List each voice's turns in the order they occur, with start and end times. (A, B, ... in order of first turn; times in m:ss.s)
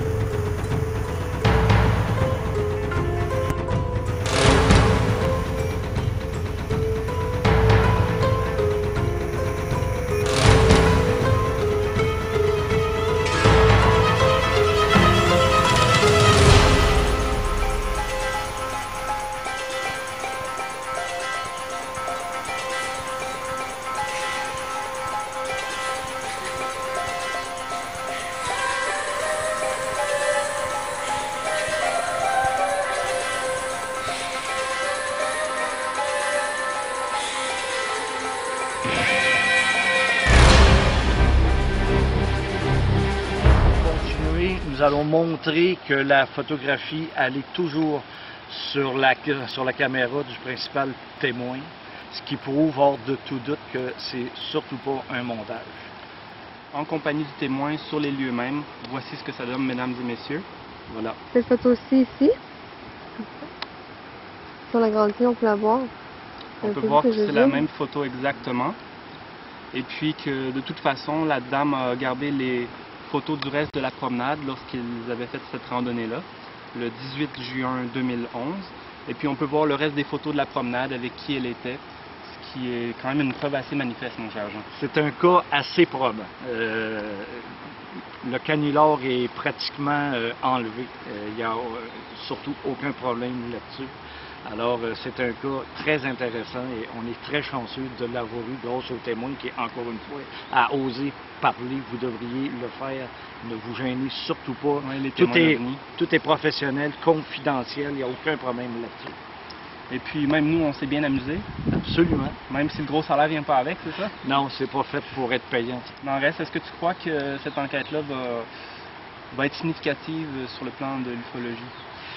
0:43.8-0:55.9 A
0:56.7-1:01.2 B
1:01.3-1:02.3 C
1:04.7-1:05.9 C
1:06.6-1:08.8 B
1:06.6-1:07.6 C
1:09.7-1:24.6 B
1:24.7-1:33.9 A
1:34.4-1:49.2 A
1:44.8-1:45.8 B
1:49.9-1:51.5 B
1:51.7-1:52.4 A
1:52.5-1:54.2 B
1:54.2-1:55.9 A
1:56.0-1:58.5 B
1:59.3-2:01.7 B